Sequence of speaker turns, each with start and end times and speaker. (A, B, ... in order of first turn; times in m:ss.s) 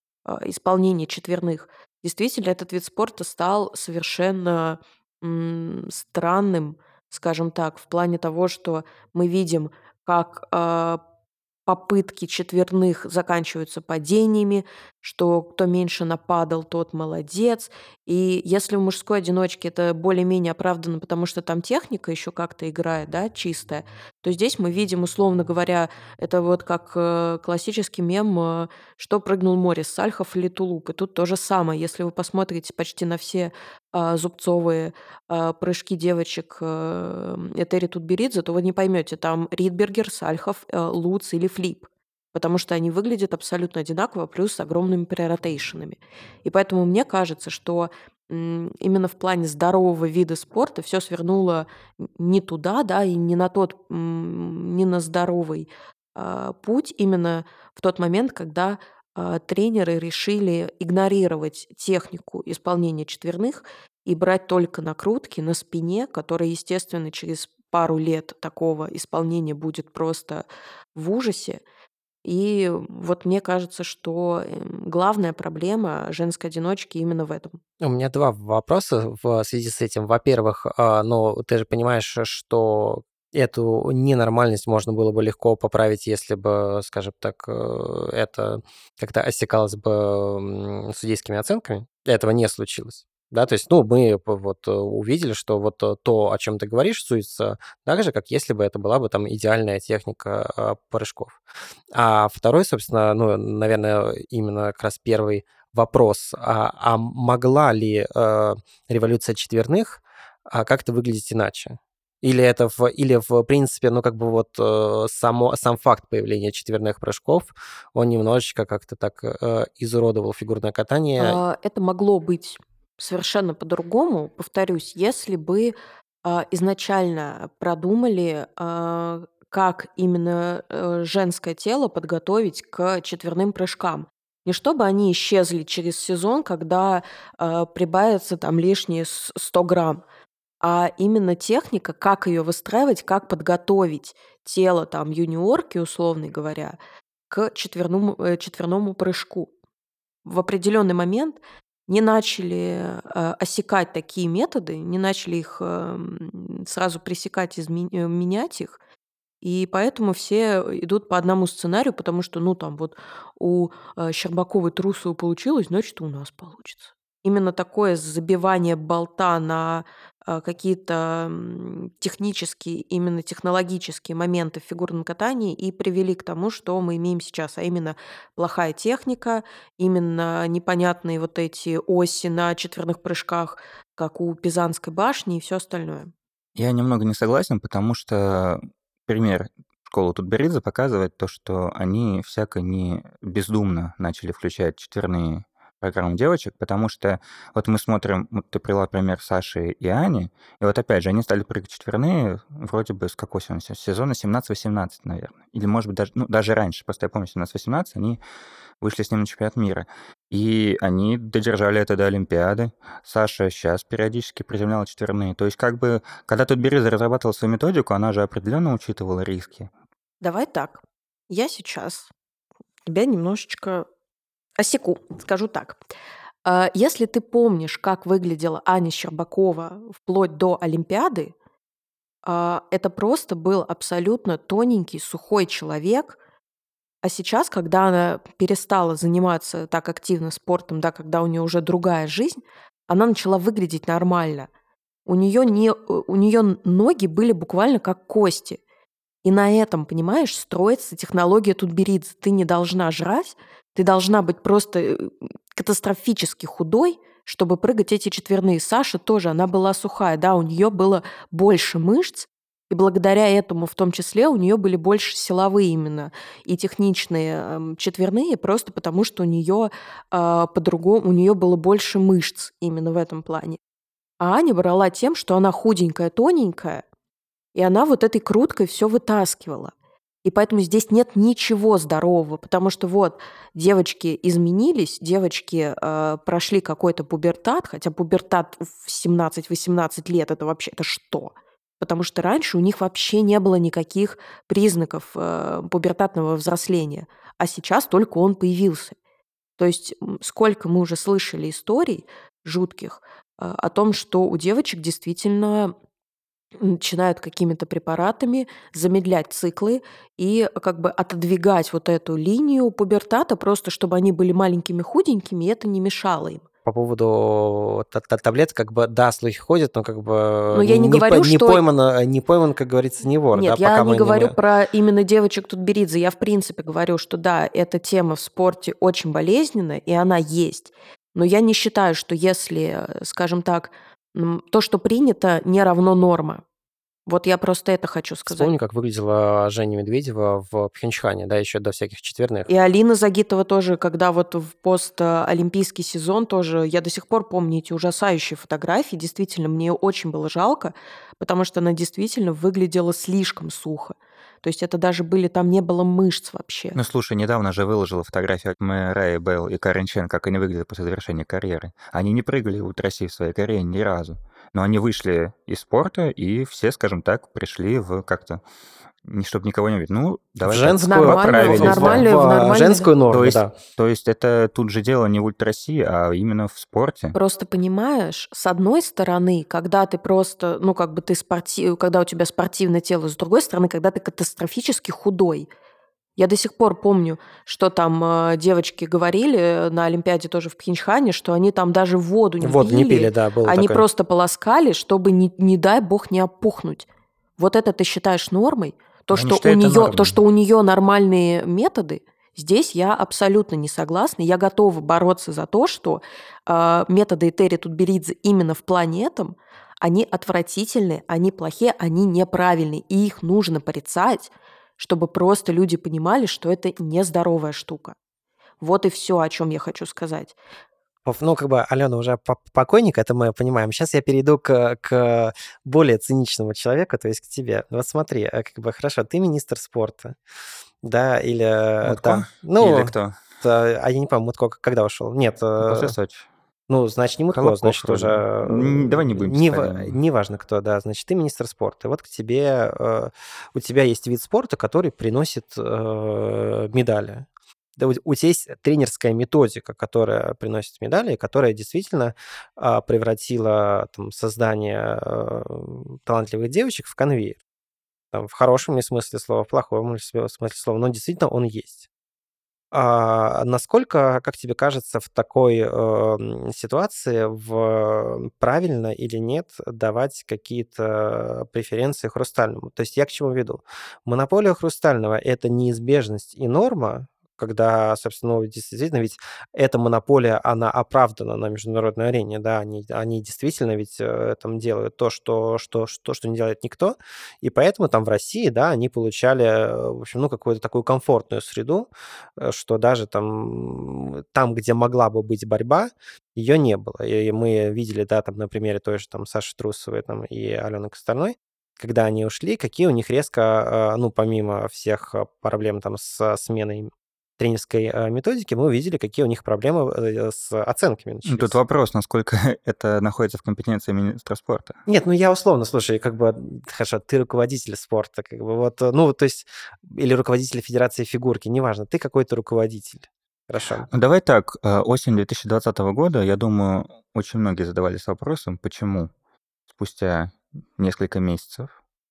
0:00.2-0:11.0 A
0:11.7-1:11.6 A
1:12.2-1:17.6 A
1:17.8-1:41.4 B
1:41.9-2:01.4 B
2:01.2-2:20.0 A
2:20.6-2:26.8 A
2:27.3-2:29.5 A
2:30.2-2:38.8 A
2:39.4-3:06.1 A
3:06.6-3:28.2 C
3:28.8-3:39.7 C
3:40.2-3:42.1 A
3:42.9-3:43.9 A
3:44.6-3:45.8 A
3:46.5-3:51.3 A
3:52.3-3:56.2 A
3:57.0-4:04.5 A
4:05.1-4:08.6 A
4:09.2-4:33.6 A
4:34.2-4:36.8 A
4:37.6-4:39.7 A
4:40.2-4:59.0 A
4:59.6-5:05.7 A
5:06.6-5:16.5 A
5:16.6-5:24.4 B
5:20.5-5:21.6 A
5:23.3-5:36.4 A
5:37.1-5:38.6 A
5:38.3-5:42.5 B
5:42.5-5:56.8 A
5:56.8-6:08.4 C
6:09.0-6:12.1 C
6:10.4-6:13.5 B
6:10.8-6:12.9 A
6:13.1-6:17.2 C
6:17.1-6:25.5 A
6:26.2-6:36.9 A
6:32.4-6:33.9 B
6:37.4-6:58.0 A
6:39.1-6:40.2 C
6:58.6-7:00.4 A
7:01.0-7:10.2 B
7:10.8-7:16.0 B
7:11.8-7:13.2 C
7:15.6-7:16.3 C
7:16.7-7:37.4 B
7:17.3-7:20.0 C
7:38.1-7:41.8 B
7:42.7-8:31.6 B
8:31.3-8:34.8 C
8:34.9-8:43.9 B
8:43.9-8:49.1 C
8:49.7-8:51.7 C